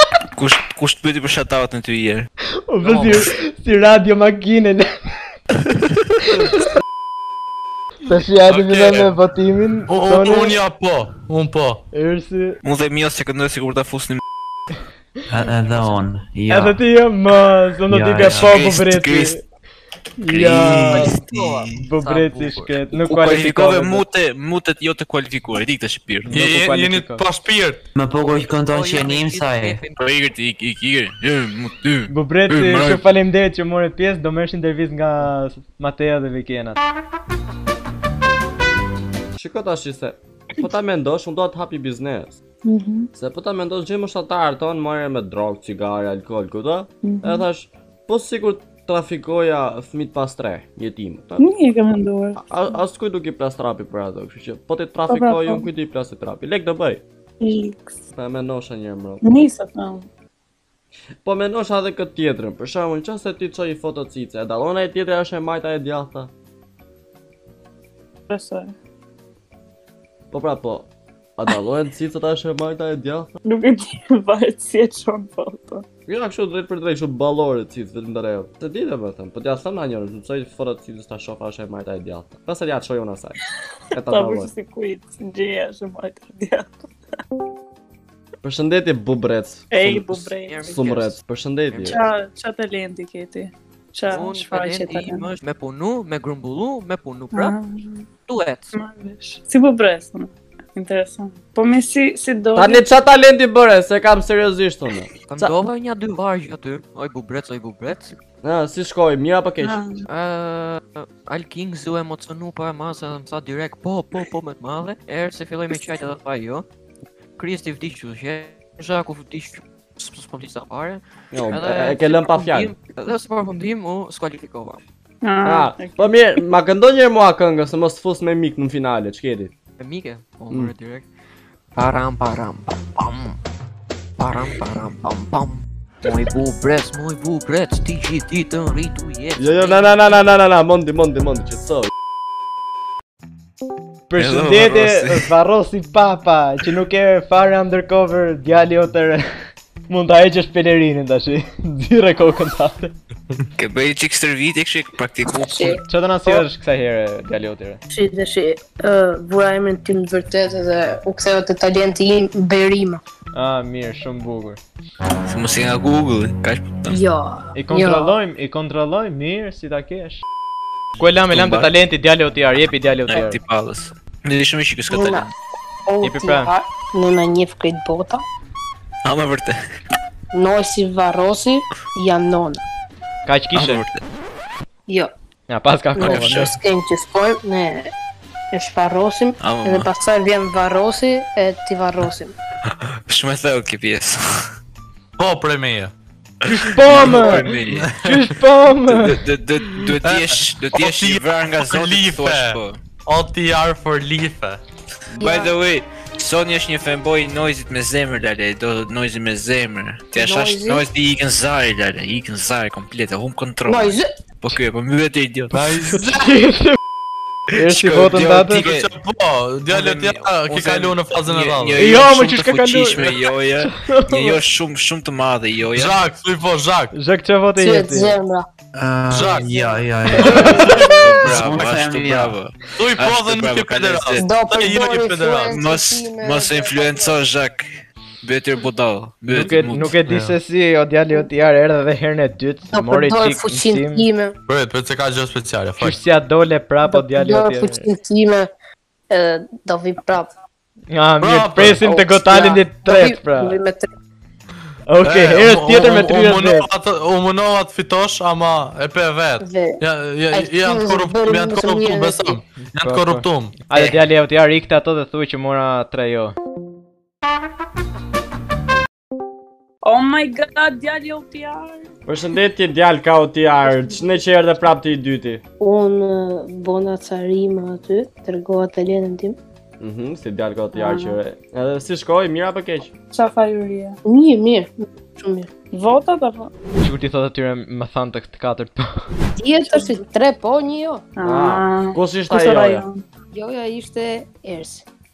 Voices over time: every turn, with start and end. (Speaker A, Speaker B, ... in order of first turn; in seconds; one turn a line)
Speaker A: 0.3-2.3
Speaker B: 2.7-4.9
Speaker C: 2.8-3.3
Speaker B: 8.1-10.6
Speaker A: 8.5-9.1
Speaker D: 9.9-11.8
Speaker B: 11.9-12.6
Speaker A: 12.6-14.2
Speaker E: 15.3-16.8
Speaker B: 16.5-19.4
Speaker E: 17.9-18.4
Speaker A: 18.1-19.3
Speaker B: 20.2-21.1
Speaker A: 20.3-21.9
Speaker C: 20.8-22.9
Speaker B: 21.8-24.0
Speaker A: 23.0-26.3
Speaker B: 26.2-27.2
Speaker D: 26.3-27.8
Speaker E: 27.9-29.8
Speaker C: 28.2-30.0
Speaker A: 30.0-33.0
Speaker B: 32.1-36.8
Speaker F: 39.4-42.4
Speaker G: 42.6-43.1
Speaker F: 43.1-51.4
Speaker G: 47.0-47.5
Speaker G: 51.4-52.7
Speaker F: 52.4-57.0
Speaker G: 55.1-55.7
Speaker G: 57.4-58.0
Speaker F: 58.1-59.2
Speaker G: 59.2-60.1
Speaker F: 61.2-66.3
Speaker G: 68.3-68.7
Speaker F: 70.3-73.3
Speaker G: 73.4-75.8
Speaker F: 76.1-83.4
Speaker F: 83.9-84.5
Speaker G: 83.9-86.9
Speaker F: 88.4-92.0
Speaker G: 89.7-90.8
Speaker C: 90.4-91.2
Speaker G: 91.9-95.3
Speaker C: 94.1-97.5
Speaker G: 97.3-98.1
Speaker C: 98.2-98.7
Speaker G: 98.7-102.9
Speaker F: 102.5-105.5
Speaker C: 105.3-108.2
Speaker F: 108.4-109.8
Speaker G: 109.6-110.0
Speaker C: 110.1-116.6
Speaker C: 117.4-124.8
Speaker F: 121.3-122.7
Speaker G: 125.2-126.2
Speaker F: 125.4-129.5
Speaker C: 129.8-131.1
Speaker C: 131.8-133.4
Speaker C: 134.2-140.4
Speaker F: 139.4-141.9
Speaker B: 144.1-149.2
Speaker A: 144.2-145.3
Speaker B: 149.9-152.9
Speaker A: 153.6-155.8
Speaker H: 155.4-156.4
Speaker B: 155.8-157.8
Speaker H: 157.9-163.0
Speaker B: 163.3-164.6
Speaker A: 165.3-167.0
Speaker H: 166.9-168.2
Speaker B: 167.5-170.2
Speaker B: 171.0-173.4
Speaker A: 171.3-171.7
Speaker A: 173.1-175.3
Speaker H: 174.9-175.3
Speaker H: 175.9-178.2
Speaker B: 176.0-176.5
Speaker A: 179.0-179.6
Speaker H: 180.3-182.6
Speaker B: 183.2-183.8
Speaker A: 183.5-184.0
Speaker B: 185.5-186.5
Speaker H: 186.0-187.9
Speaker A: 186.0-186.5
Speaker H: 188.5-192.3
Speaker A: 189.4-189.9
Speaker A: 193.1-194.5
Speaker D: 195.2-195.9
Speaker B: 196.4-197.5
Speaker A: 196.6-197.9
Speaker D: 196.9-198.2
Speaker B: 198.0-199.2
Speaker A: 198.9-202.8
Speaker D: 200.0-204.6
Speaker H: 205.2-205.5
Speaker A: 205.2-216.0
Speaker H: 210.1-210.8
Speaker H: 213.6-214.1
Speaker D: 215.6-216.2
Speaker B: 215.9-216.8
Speaker B: 217.6-218.7
Speaker A: 217.6-218.9
Speaker D: 218.7-221.9
Speaker A: 219.7-226.0
Speaker B: 221.8-224.4
Speaker D: 225.7-226.9
Speaker B: 226.9-228.2
Speaker H: 227.6-228.4
Speaker E: 228.7-232.4
Speaker D: 229.1-229.6
Speaker D: 230.2-230.9
Speaker A: 230.3-234.2
Speaker D: 232.8-235.5
Speaker H: 234.2-237.2
Speaker A: 235.5-239.9
Speaker B: 239.3-244.0
Speaker D: 240.1-240.4
Speaker H: 242.7-244.4
Speaker D: 244.5-246.0
Speaker B: 245.8-247.8
Speaker H: 246.8-248.5
Speaker H: 249.1-250.3
Speaker B: 250.9-253.6
Speaker D: 251.2-251.8
Speaker H: 251.8-253.9
Speaker B: 254.9-256.7
Speaker D: 255.0-263.5
Speaker H: 259.4-262.4
Speaker B: 262.6-266.3
Speaker G: 269.8-271.9
Speaker F: 272.1-275.4
Speaker H: 275.6-279.4
Speaker F: 279.8-282.9
Speaker G: 280.7-281.2
Speaker G: 283.1-284.0
Speaker H: 284.0-285.5
Speaker G: 285.7-286.5
Speaker B: 286.8-288.8
Speaker H: 289.4-291.1
Speaker G: 291.1-293.0
Speaker F: 291.2-292.9
Speaker H: 293.3-294.8